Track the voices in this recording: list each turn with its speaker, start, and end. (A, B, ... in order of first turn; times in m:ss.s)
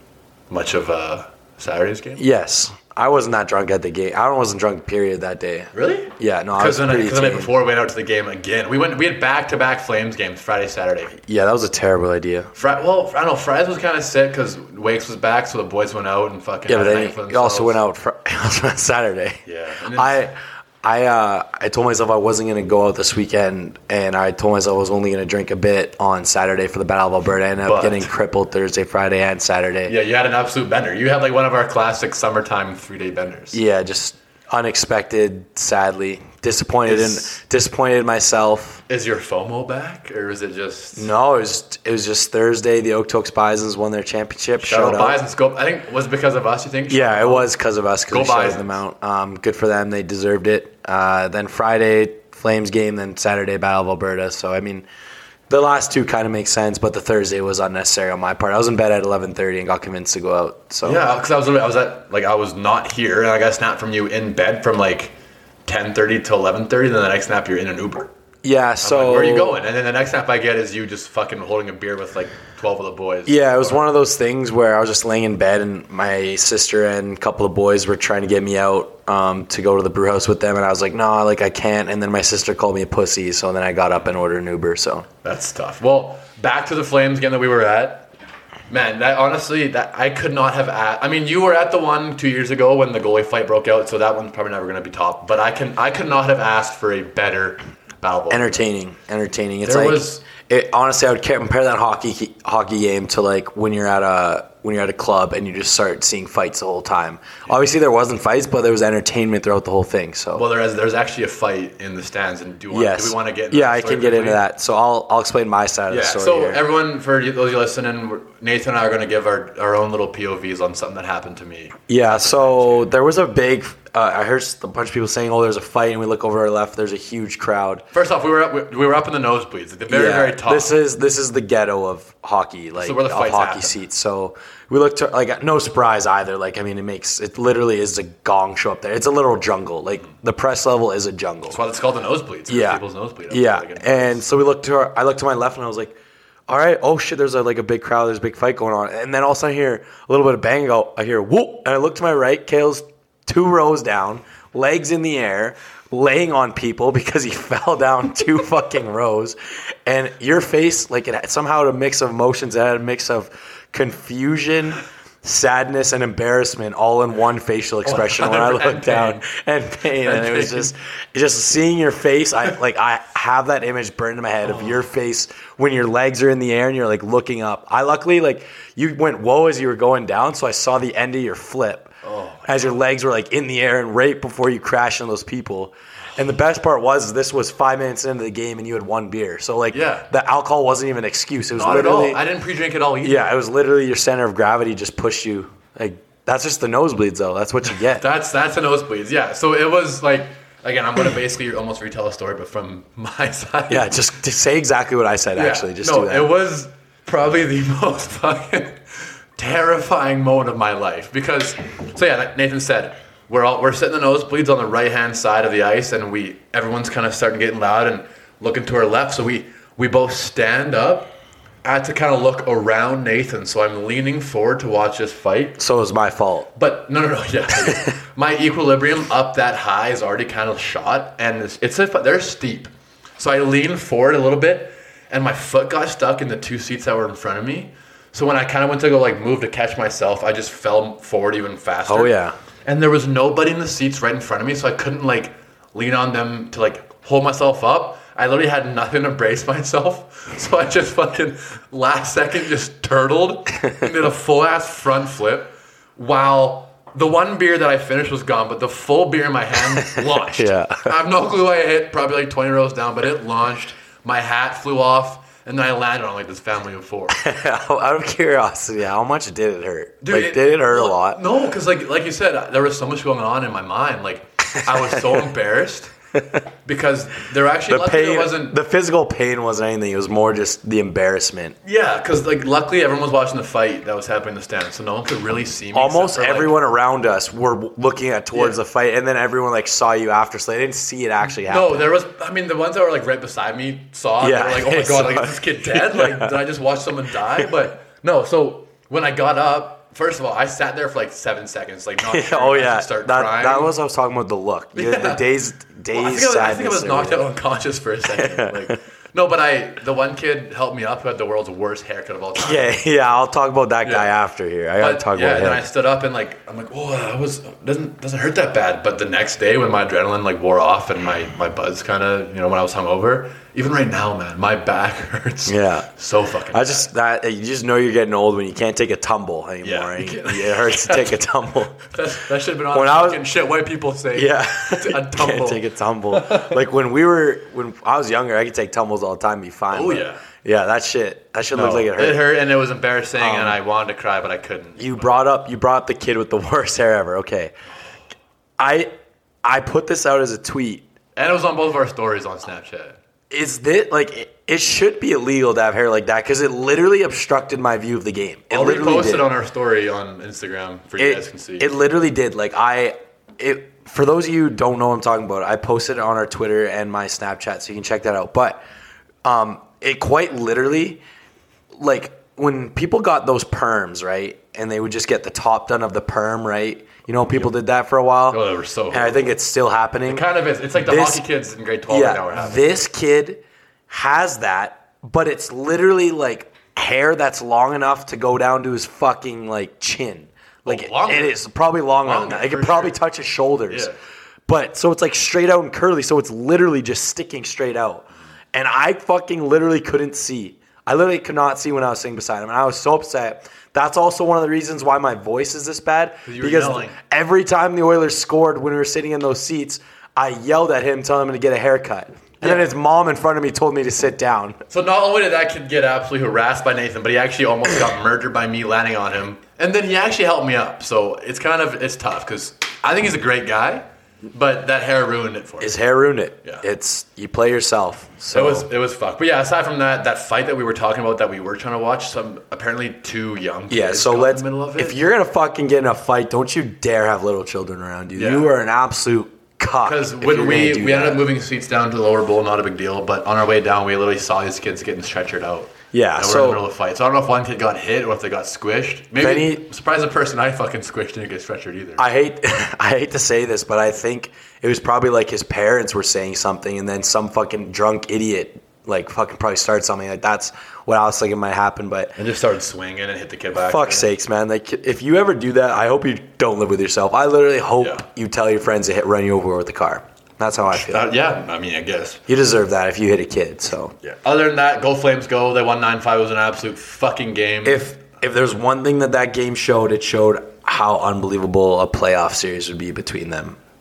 0:00.5-0:02.2 A
0:02.2-0:07.5 B
0:05.7-0:11.2 A
0:11.2-0:12.5 B
0:12.5-0:17.8 A
0:16.7-0:19.4 B
0:19.4-0:20.2 A
0:19.9-0:29.9 B
0:27.6-0:28.1 A
0:29.9-0:33.6 A
0:33.5-0:38.8 B
0:36.8-0:37.4 A
0:38.9-0:41.1 A
0:41.0-0:45.2 B
0:44.6-0:47.5 A
0:46.9-0:54.8 B
0:48.1-0:48.7 A
0:55.5-1:01.0 B
1:00.8-1:05.1 A
1:05.6-1:08.1 A
1:08.4-1:09.5 B
1:08.8-1:13.8 A
1:13.2-1:25.1 B
1:25.2-1:28.1 A
1:28.7-1:38.6 A
1:38.3-1:50.4 B
1:39.6-1:40.2 A
1:50.3-1:54.4 A
1:52.7-1:56.6 B
1:55.9-2:02.9 A
2:01.9-2:07.8 B
2:07.9-2:10.8 A
2:09.9-2:21.6 B
2:12.8-2:13.8 A
2:21.5-2:24.2 A
2:22.5-2:25.9 B
2:26.5-3:01.9 B
2:47.8-2:49.2 A
2:50.0-2:50.7 A
2:54.4-2:54.8 A
3:02.0-3:02.8 A
3:02.4-3:12.2 B
3:09.7-3:10.1 A
3:11.5-3:13.3 A
3:13.0-3:18.0 B
3:17.9-3:23.9 A
3:23.7-3:26.3 B
3:25.4-3:28.8 A
3:29.4-3:45.6 A
3:45.6-3:46.5 B
3:46.5-4:02.1 A
4:01.9-4:02.3 B
4:02.6-4:27.2 A
4:20.3-4:20.9 B
4:27.1-4:31.2 B
4:30.0-4:35.9 A
4:36.6-4:38.6 A
4:37.7-4:41.6 B
4:41.6-4:46.6 A
4:45.7-4:51.9 B
4:51.4-5:03.7 A
4:54.2-4:56.3 B
5:02.0-5:07.2 B
5:04.7-5:05.2 A
5:05.9-5:12.8 A
5:08.1-5:08.7 B
5:12.4-5:15.6 B
5:13.8-5:14.1 A
5:14.8-5:26.9 A
5:25.4-5:25.9 B
5:26.5-5:31.9 B
5:29.6-5:31.2 A
5:31.9-5:36.6 A
5:32.7-5:33.2 B
5:34.1-5:42.2 B
5:39.7-5:40.2 A
5:41.5-5:45.1 A
5:43.2-5:43.6 B
5:44.8-5:47.5 B
5:48.6-5:48.9 B
5:49.4-5:50.8 B
5:51.2-5:53.0 A
5:53.3-5:59.3 B
5:58.5-6:01.7 A
6:01.0-6:08.6 B
6:09.2-6:11.0 B
6:11.7-6:21.2 B
6:18.3-6:19.3 A
6:20.1-6:22.8 A
6:21.9-6:33.9 B
6:30.6-6:31.4 A
6:32.0-6:33.0 A
6:33.7-6:34.0 A
6:34.5-6:54.6 B
6:46.2-6:47.0 A
6:52.4-6:52.6 A
6:54.7-7:05.8 A
7:05.6-7:08.7 B
7:08.3-7:15.0 A
7:13.7-7:21.2 B
7:18.2-7:18.5 A
7:19.8-7:32.0 A
7:25.9-7:26.6 B
7:29.2-7:29.6 B
7:32.0-7:42.2 B
7:42.2-7:44.1 A
7:43.6-7:51.1 B
7:50.7-7:52.2 A
7:52.3-7:53.9 B
7:54.0-7:57.8 A
7:57.6-8:03.6 B